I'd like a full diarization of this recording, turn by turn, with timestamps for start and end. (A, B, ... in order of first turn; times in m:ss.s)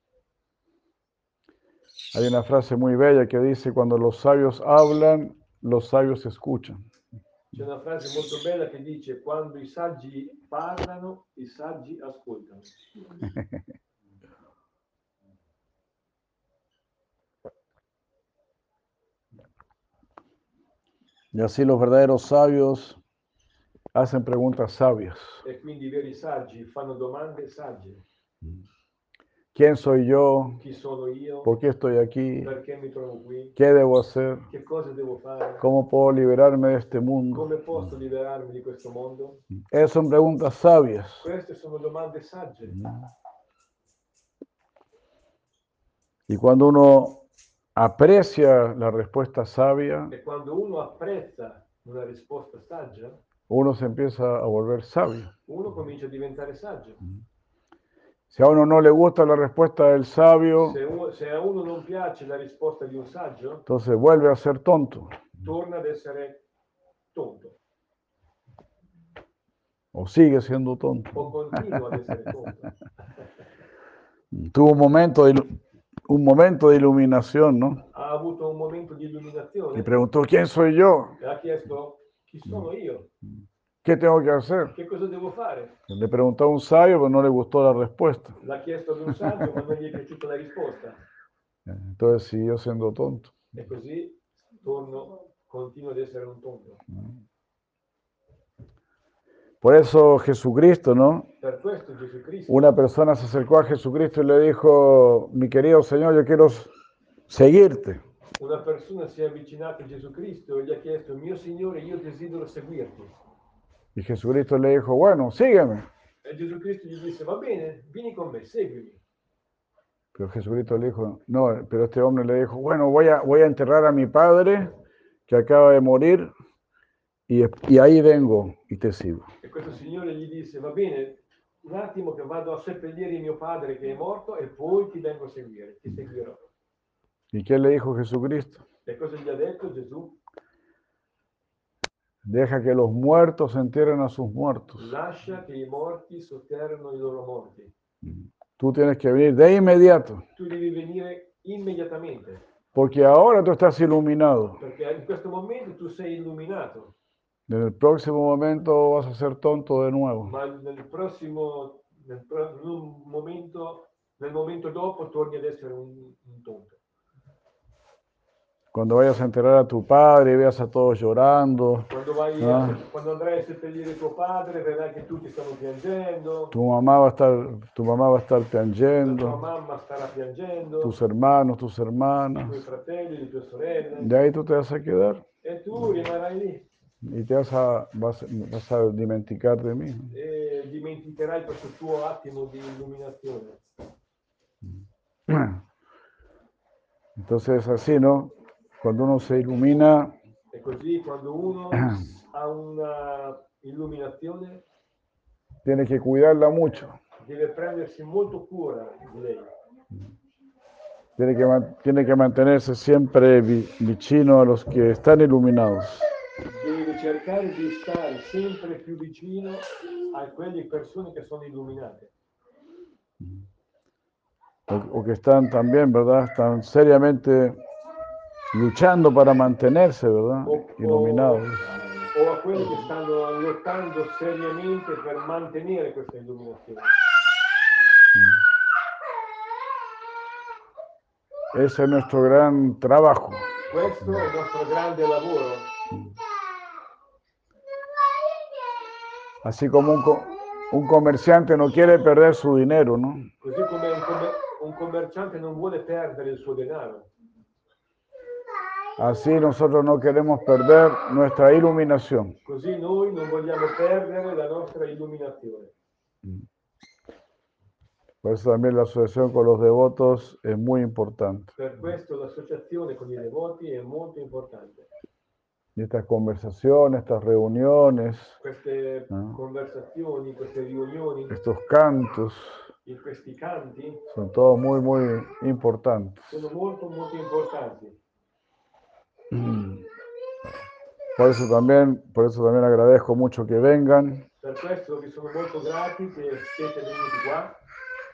0:02.1-0:06.8 A
0:07.5-0:12.7 B
0:13.3-0:13.6 A
0:21.3-0:23.0 A
0:23.9-0:25.4 A
0:25.4-0:28.0 B
0:29.5-0:30.6 A
0:30.6-0:31.5 B
0:31.4-0:32.5 A
0:32.4-0:33.6 B
0:33.6-0:34.5 A
0:34.5-0:35.6 B
0:35.6-0:37.5 A
0:37.3-0:39.4 B
0:39.7-0:41.3 A
0:41.2-0:42.8 B
0:46.3-0:47.2 A
0:47.8-0:50.1 A
0:50.1-0:53.2 B
0:53.5-0:55.3 A
0:55.5-0:57.0 B
0:58.3-1:00.8 A
1:00.6-1:03.7 B
1:03.7-1:05.3 A
1:05.4-1:06.4 B
1:07.1-1:07.6 B
1:09.9-1:11.8 A
1:11.1-1:12.7 B
1:14.3-1:15.6 A
1:16.1-1:17.8 A
1:17.9-1:19.9 B
1:19.8-1:21.2 A
1:21.2-1:23.1 B
1:23.8-1:24.8 A
1:24.7-1:25.8 B
1:25.9-1:28.4 A
1:28.4-1:31.0 B
1:31.7-1:33.4 A
1:33.5-1:36.8 B
1:39.6-1:41.3 A
1:41.4-1:42.7 B
1:42.5-1:46.7 A
1:47.3-1:48.0 A
1:48.4-1:53.2 B
1:54.0-1:55.9 A
1:56.2-1:59.0 B
2:00.1-2:04.8 A
2:05.3-2:06.3 A
2:07.3-2:09.3 A
2:09.4-2:16.4 B
2:17.3-2:18.6 A
2:18.9-2:20.2 B
2:22.2-2:24.9 A
2:24.8-2:27.7 B
2:28.0-2:30.2 A
2:30.4-2:32.4 B
2:32.7-2:34.6 A
2:34.6-2:36.9 B
2:37.5-2:40.4 A
2:40.2-2:46.8 B
2:48.7-2:52.8 A
2:51.9-2:56.6 B
2:56.5-2:59.4 A
2:59.0-3:01.0 B
3:00.8-3:02.6 A
3:02.4-3:04.1 B
3:04.0-3:05.2 A
3:05.4-3:06.7 B
3:07.0-3:10.1 A
3:10.1-3:13.6 B
3:15.3-3:15.6 A
3:17.2-3:20.2 A
3:20.5-3:24.6 B
3:25.6-3:27.0 A
3:27.2-3:29.5 B
3:31.2-3:36.1 A
3:36.5-3:42.1 B
3:44.7-3:47.6 A
3:48.5-3:51.7 A
3:50.4-3:51.5 B
3:52.1-3:57.0 B
3:58.2-3:58.4 A
4:01.5-4:03.6 A
4:03.7-4:05.7 B
4:09.4-4:13.3 A
4:13.4-4:17.1 B
4:19.0-4:22.4 A
4:22.4-4:25.7 B
4:28.2-4:31.5 A
4:31.6-4:34.9 B
4:35.8-4:38.4 A
4:38.4-4:41.4 B
4:41.3-4:42.6 A
4:42.8-4:44.0 B
4:44.1-4:46.5 A
4:46.3-4:48.0 B
4:49.3-4:49.8 A
4:51.2-4:54.3 A
4:54.4-4:57.6 B